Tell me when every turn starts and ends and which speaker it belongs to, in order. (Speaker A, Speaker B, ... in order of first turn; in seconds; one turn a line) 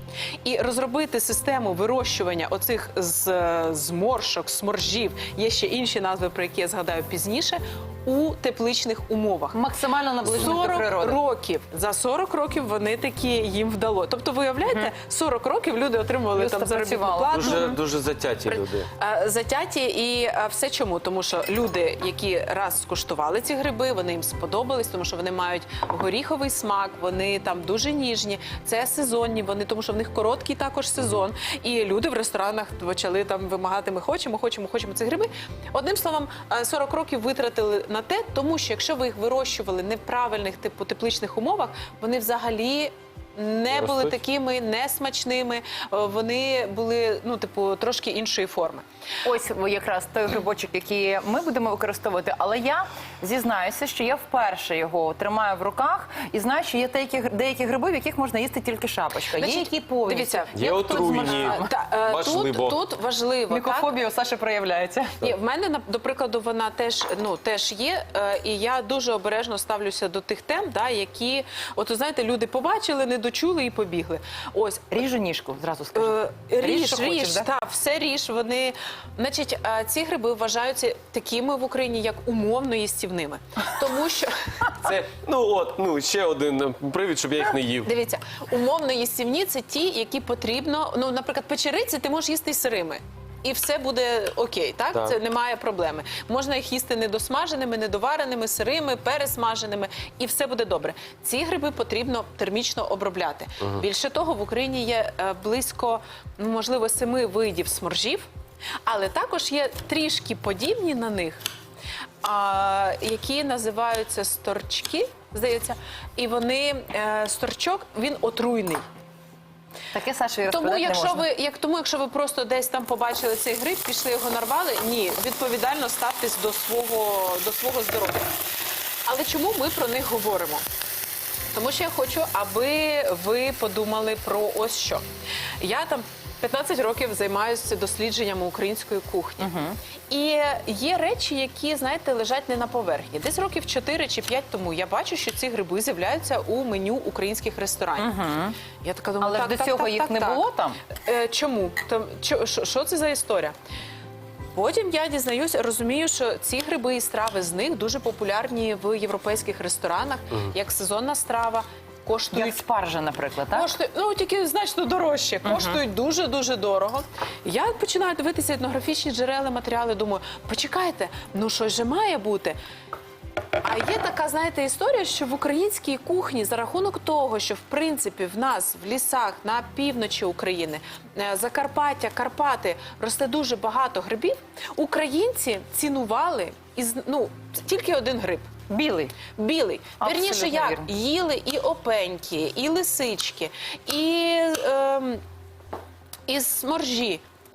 Speaker A: 0.4-9.6
Speaker B: 9.5-11.2
Speaker A: 10.2-17.8
Speaker B: 14.7-14.9
Speaker B: 16.4-17.8
Speaker C: 17.3-18.8
Speaker A: 18.5-48.9
Speaker B: 49.2-61.7
Speaker A: 59.3-63.9
Speaker C: 60.5-62.8
Speaker B: 63.5-65.2
Speaker A: 65.2-74.9
Speaker B: 74.9-77.5
Speaker A: 75.9-84.9
Speaker C: 84.8-87.9
Speaker A: 87.8-108.3
Speaker A: 108.8-111.4
Speaker A: 112.2-118.8
Speaker B: 119.9-121.2
Speaker A: 120.5-128.3
Speaker A: 129.1-130.7
Speaker A: 131.5-135.1
Speaker A: 135.6-139.5
Speaker B: 139.4-139.8
Speaker A: 140.1-148.1
Speaker B: 148.0-148.6
Speaker A: 148.8-153.5
Speaker B: 149.2-150.8
Speaker A: 154.5-162.6
Speaker B: 162.3-163.7
Speaker A: 163.5-172.6
Speaker B: 165.4-165.8
Speaker A: 173.6-188.5
Speaker B: 188.7-189.2
Speaker A: 189.3-195.2
Speaker B: 190.0-190.9
Speaker A: 196.3-197.2